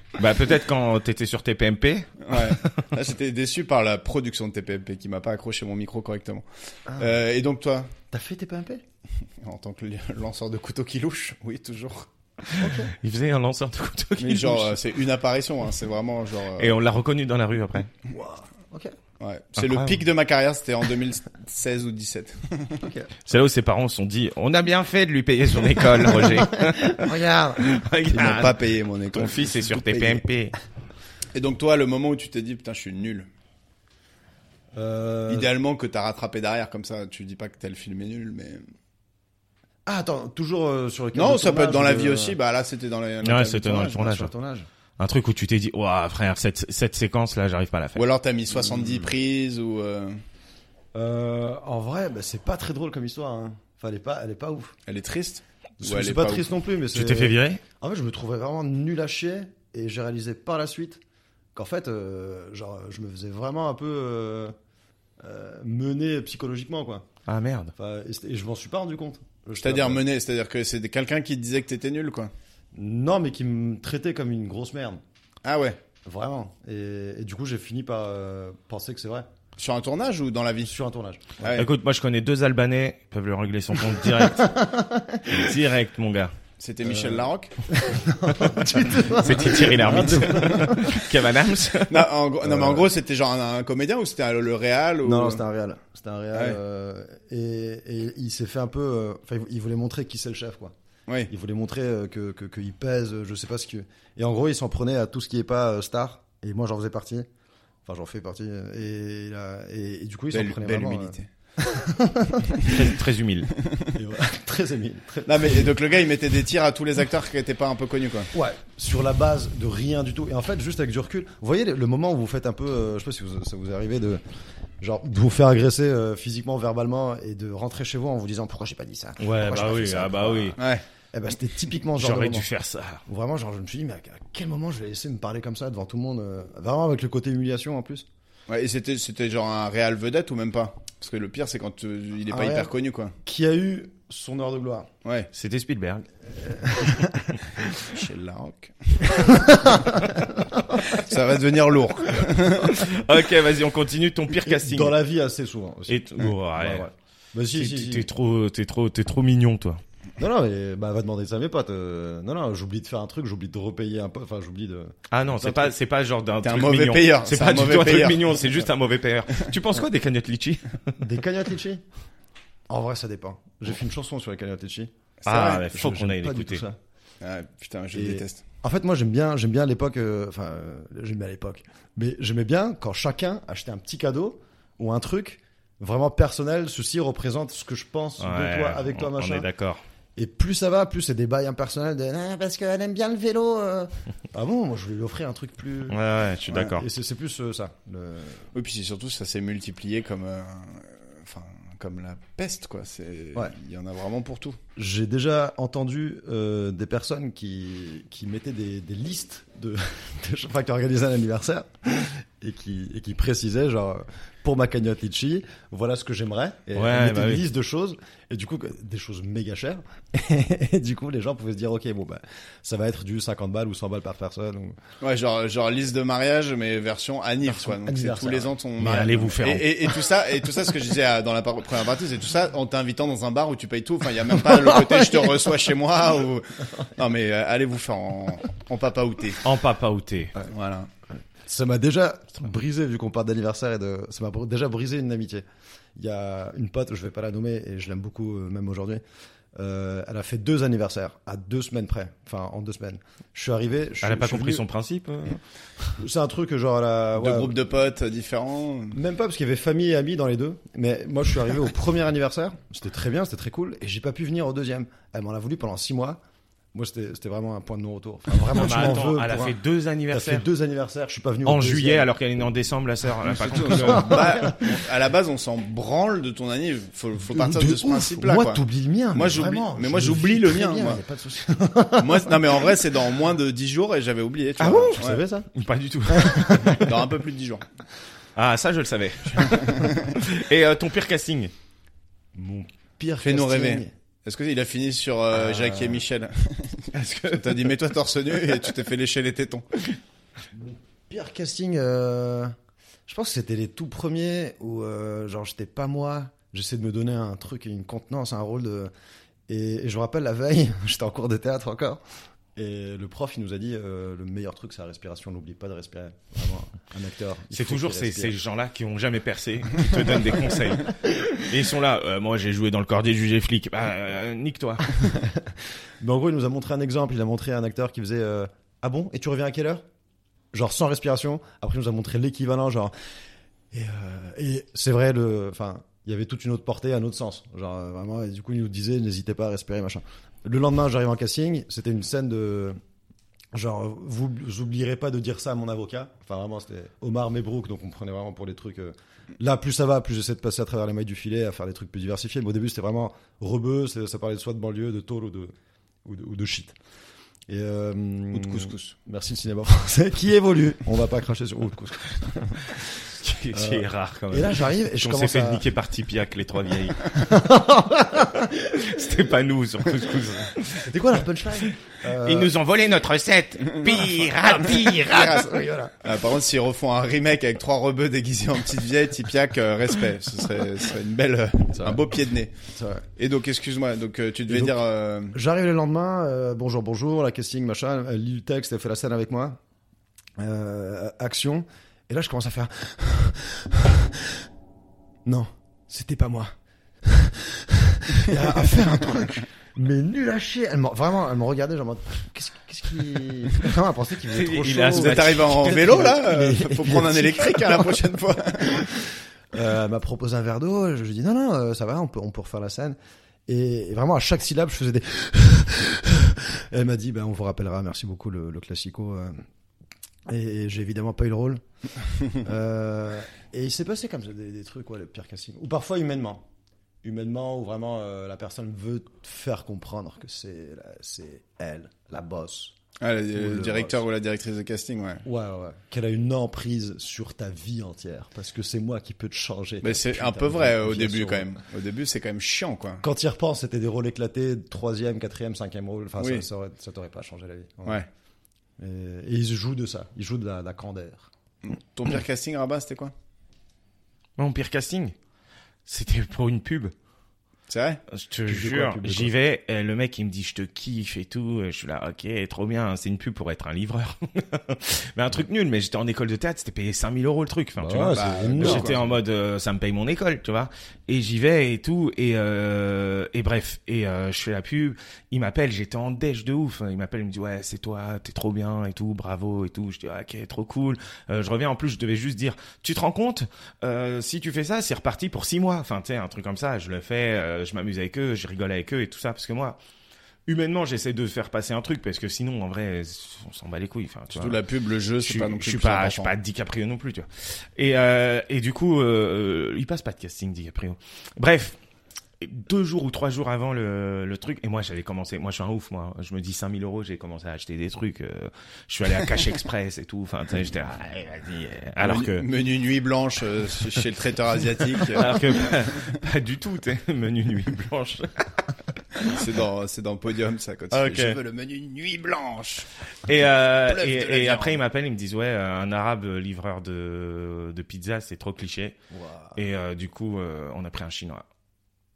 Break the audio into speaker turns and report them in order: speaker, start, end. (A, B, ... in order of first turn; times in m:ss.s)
0:00.2-0:02.6 A
0:02.2-0:06.4 B
0:07.0-0:07.9 B
0:08.1-0:08.8 C
0:09.4-0:12.1 B
0:12.6-0:12.9 C
0:12.6-0:14.8 A
0:14.2-0:16.8 B
0:16.6-0:17.9 A
0:18.1-0:18.9 C
0:19.2-0:22.8 B
0:19.6-0:20.0 A
0:22.8-0:23.1 C
0:23.2-0:30.6 A
0:26.3-0:27.7 C
0:28.1-0:30.2 B
0:31.3-0:33.3 B
0:34.7-0:35.5 C
0:35.3-0:38.6 B
0:39.8-0:42.4 C
0:41.1-0:44.0 B
0:43.2-0:44.3 A
0:43.8-0:44.7 C
0:45.0-0:48.1 A
0:47.9-0:50.2 B
0:50.9-0:54.7 C
0:54.9-0:56.5 B
0:55.8-1:01.0 C
0:56.9-0:57.6 A
1:01.6-1:04.6 C
1:05.2-1:07.0 C
1:07.3-1:07.7 A
1:07.8-1:10.0 C
1:09.6-1:12.3 B
1:12.7-1:15.0 C
1:15.4-1:15.8 B
1:16.0-1:19.3 C
1:19.6-1:20.7 B
1:20.7-1:21.6 C
1:21.4-1:21.7 B
1:21.6-1:24.5 A
1:24.2-1:25.4 C
1:25.3-1:26.3 A
1:26.6-1:27.6 B
1:26.8-1:31.0 C
1:28.4-1:32.1 A
1:29.5-1:30.7 B
1:31.9-1:35.4 B
1:32.4-1:32.8 C
1:35.0-1:40.7 C
1:41.3-1:47.3 C
1:47.8-1:52.7 C
1:50.3-1:51.3 B
1:52.6-1:53.5 A
1:53.9-1:55.7 C
1:55.3-1:58.3 B
1:58.3-2:04.2 C
2:04.8-2:10.6 C
2:09.2-2:10.6 A
2:10.6-2:10.8 B
2:11.1-2:12.5 C
2:12.0-2:13.0 A
2:13.1-2:18.1 C
2:18.5-2:23.1 B
2:22.3-2:22.7 C
2:23.2-2:24.9 C
2:25.0-2:25.3 B
2:25.3-2:26.1 A
2:26.4-2:27.4 C
2:27.7-2:29.4 B
2:29.1-2:30.9 C
2:30.8-2:32.8 B
2:32.6-2:35.0 A
2:34.3-2:38.1 C
2:35.9-2:36.9 A
2:37.5-2:39.8 A
2:40.2-2:45.7 C
2:45.1-2:50.9 A
2:46.4-2:48.4 B
2:51.0-2:51.8 C
2:52.7-2:54.9 C
2:55.2-2:55.7 B
2:55.3-2:56.6 A
2:55.7-2:56.8 C
2:57.2-2:58.4 B
2:57.9-3:09.5 C
3:08.2-3:09.8 A
3:10.2-3:16.0 C
3:15.9-3:16.8 A
3:16.5-3:18.5 C
3:18.5-3:24.6 B
3:24.8-3:44.8 C
3:36.7-3:37.4 A
3:45.0-3:59.4 B
3:47.5-3:48.5 C
3:48.8-3:49.7 A
3:54.4-3:55.4 C
3:59.4-4:00.3 A
4:00.5-4:00.9 B
4:01.4-4:05.4 C
4:06.0-4:09.0 C
4:09.6-4:14.6 C
4:14.0-4:15.4 A
4:16.0-4:17.6 C
4:17.2-4:19.0 B
4:18.9-4:26.2 C
4:26.7-4:29.6 C
4:28.5-4:30.4 A
4:30.1-4:32.1 C
4:31.4-4:34.4 A
4:33.3-4:38.6 B
4:33.7-4:34.7 C
4:37.3-4:42.7 C
4:39.1-4:41.0 B
4:42.0-4:45.2 B
4:44.6-4:46.9 A
4:44.8-4:45.5 C
4:46.1-4:47.0 C
4:46.8-4:47.6 B
4:48.4-4:51.5 A
4:49.4-4:50.0 B
4:52.4-4:53.9 C
4:53.2-4:59.6 B
4:55.4-4:56.0 C
4:56.9-4:57.7 A
5:00.5-5:02.6 C
5:03.1-5:08.9 C
5:09.5-5:12.0 C
5:12.6-5:18.4 C
5:17.5-5:24.9 A
5:25.0-5:29.8 C
5:30.5-5:32.9 C
5:33.7-5:42.8 C
5:43.5-5:55.5 C
5:56.0-5:56.7 C
5:57.5-6:05.6 C
5:58.3-5:58.9 B
6:03.1-6:07.2 A
6:07.1-6:08.8 C
6:08.5-6:10.9 A
6:10.8-6:12.5 C
6:11.6-6:15.4 A
6:14.8-6:16.0 C
6:15.0-6:15.5 B
6:16.0-6:22.5 B
6:21.7-6:22.0 C
6:22.7-6:23.1 C
6:23.2-6:25.4 B
6:24.5-6:24.8 C
6:25.3-6:29.6 C
6:30.4-6:34.4 C
6:35.3-6:47.9 C
6:44.3-6:46.0 A
6:44.9-6:48.8 B
6:48.7-6:59.4 C
7:00.3-7:01.6 C
7:02.3-7:06.4 C
7:07.0-7:12.7 C
7:13.0-7:15.2 B
7:13.4-7:14.0 C
7:15.2-7:21.6 C
7:19.8-7:23.0 B
7:23.0-7:28.0 C
7:26.2-7:26.4 B
7:28.8-7:31.3 C
7:31.6-7:33.1 B
7:34.4-7:35.1 A
7:35.8-7:36.9 A
7:37.7-7:38.0 B
7:38.1-8:09.8 A
7:38.5-7:39.3 C
7:47.8-7:49.1 C
7:48.1-7:49.0 B
8:10.5-8:14.6 A
8:14.3-8:16.3 B
8:15.2-8:21.8 A
8:22.4-8:32.5 A
8:32.0-8:35.4 B
8:35.0-8:38.6 A
8:39.2-8:42.9 B
8:40.9-8:41.4 A
8:43.3-8:49.0 A
8:43.7-8:44.8 B
8:49.1-8:49.6 C
8:49.6-8:51.4 A